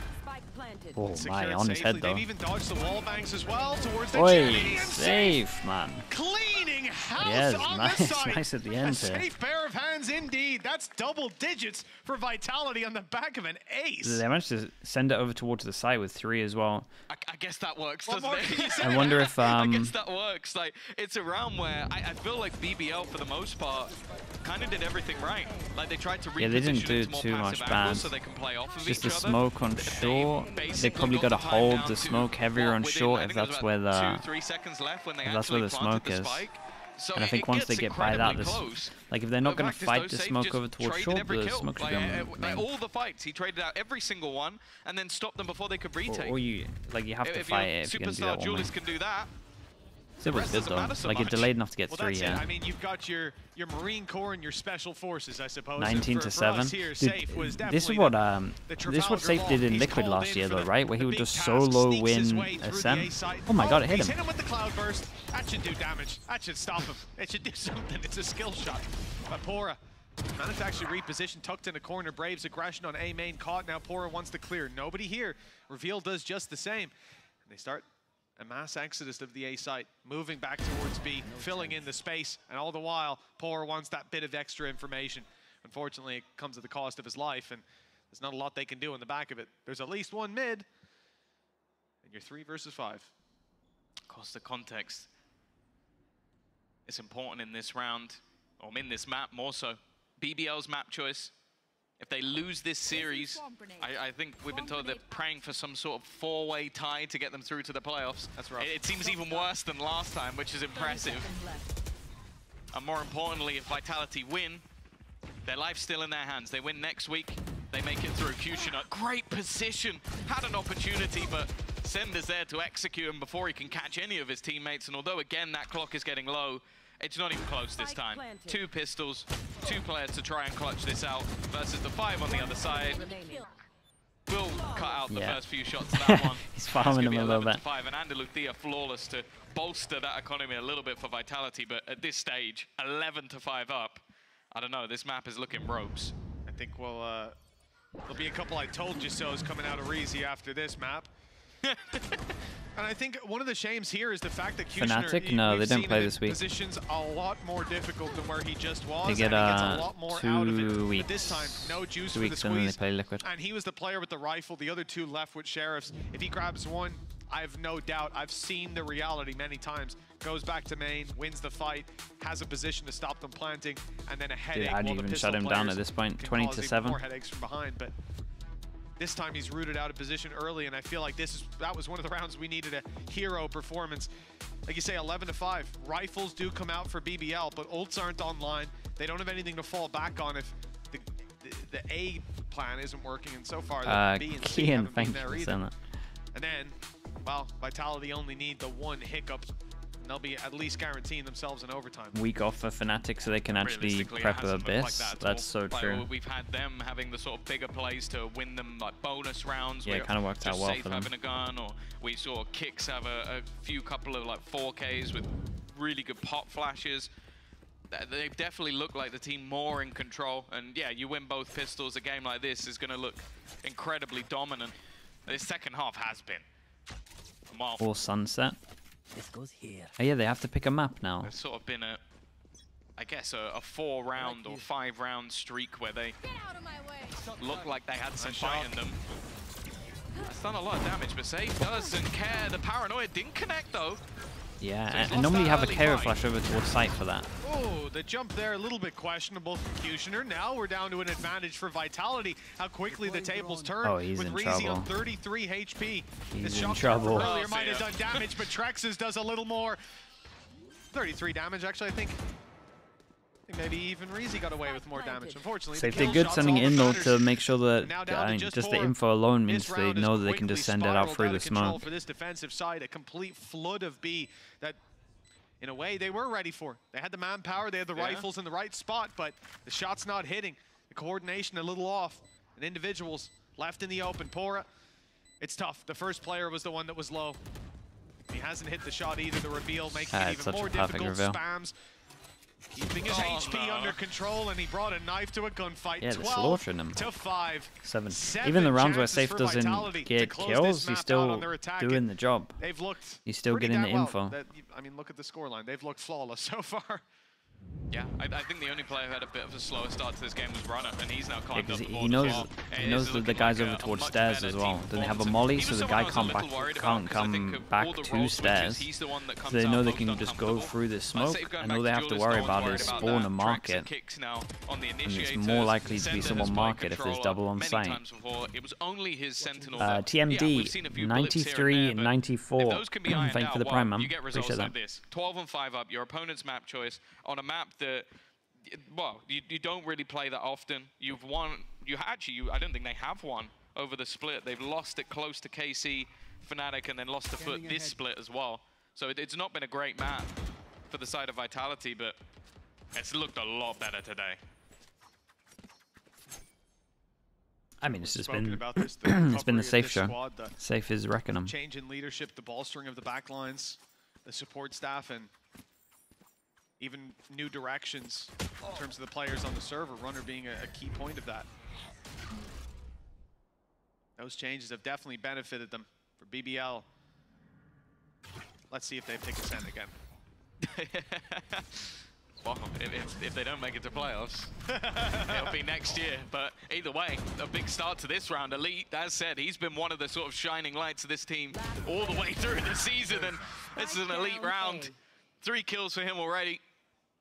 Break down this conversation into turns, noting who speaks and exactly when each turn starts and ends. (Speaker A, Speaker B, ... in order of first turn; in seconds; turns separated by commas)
Speaker A: 0.2-1.0, Speaker B: 0.9-2.3, Speaker C: 1.1-5.4, Speaker A: 2.7-4.7, Speaker B: 4.1-6.1, Speaker C: 6.1-14.2, Speaker B: 7.2-9.3, Speaker B: 14.0-16.9, Speaker D: 17.1-46.4, Speaker C: 18.1-19.2, Speaker B: 18.8-19.9, Speaker B: 26.4-28.1, Speaker B: 28.8-34.2, Speaker A: 30.4-31.1, Speaker B: 35.2-36.5, Speaker B: 37.1-42.7, Speaker B: 46.1-48.7, Speaker D: 47.2-49.3, Speaker B: 50.2-52.5, Speaker D: 50.2-51.5, Speaker C: 51.9-69.8, Speaker B: 55.8-64.2, Speaker C: 70.3-76.9, Speaker C: 77.4-77.8, Speaker C: 78.4-90.7, Speaker E: 81.2-81.9, Speaker C: 92.0-93.1, Speaker D: 94.1-95.1, Speaker D: 96.9-101.3, Speaker D: 102.0-111.3, Speaker A: 102.9-105.2, Speaker C: 108.3-108.7, Speaker A: 109.0-109.5, Speaker A: 110.7-111.8, Speaker D: 112.7-114.6, Speaker D: 115.4-133.1, Speaker A: 127.8-128.6, Speaker A: 132.3-133.5, Speaker D: 134.3-146.1, Speaker A: 134.7-135.0, Speaker B: 135.1-137.6, Speaker C: 146.5-147.3, Speaker C: 148.1-151.1, Speaker D: 151.6-152.3, Speaker C: 152.8-177.9, Speaker B: 154.8-156.4, Speaker B: 159.0-163.2, Speaker B: 174.5-177.0, Speaker C: 179.0-184.1, Speaker C: 184.7-195.6, Speaker B: 193.8-195.7, Speaker C: 196.3-202.2, Speaker B: 202.1-206.1, Speaker D: 203.5-217.1, Speaker B: 209.8-211.1, Speaker D: 217.9-224.8, Speaker D: 225.2-226.4, Speaker D: 227.5-227.8, Speaker B: 227.8-228.6, Speaker E: 229.1-229.9, Speaker B: 230.0-231.3, Speaker D: 231.2-232.0, Speaker D: 233.0-236.2, Speaker E: 234.2-234.7, Speaker A: 236.2-237.2, Speaker D: 237.4-239.0, Speaker C: 238.2-238.8, Speaker D: 240.2-244.0, Speaker B: 244.6-247.3, Speaker D: 244.9-246.2, Speaker C: 247.4-259.8, Speaker E: 252.9-253.8, Speaker B: 253.8-254.9, Speaker B: 256.3-257.3, Speaker D: 257.1-258.3, Speaker C: 260.9-262.2, Speaker C: 263.5-274.8, Speaker A: 264.6-266.5, Speaker B: 265.7-271.8, Speaker C: 275.6-284.7, Speaker D: 277.9-278.3, Speaker C: 285.4-287.4, Speaker C: 288.3-291.8, Speaker B: 290.1-291.4, Speaker C: 292.8-302.0, Speaker D: 293.0-294.0, Speaker B: 296.0-297.1, Speaker B: 297.8-302.6, Speaker C: 302.6-307.0, Speaker B: 303.2-304.4, Speaker D: 307.9-338.1, Speaker B: 311.5-318.9, Speaker B: 319.4-323.9, Speaker B: 325.0-328.0, Speaker E: 329.4-330.0, Speaker B: 329.8-334.8, Speaker D: 338.6-350.3, Speaker E: 347.4-348.0, Speaker D: 350.9-352.2, Speaker D: 352.9-354.4, Speaker B: 357.8-361.5, Speaker C: 358.0-360.5, Speaker C: 361.4-365.3, Speaker C: 366.8-371.5, Speaker C: 374.2-376.9, Speaker C: 378.7-379.9, Speaker D: 380.6-384.5, Speaker C: 384.7-385.6, Speaker D: 385.2-396.6, Speaker A: 391.5-393.0, Speaker A: 393.5-394.9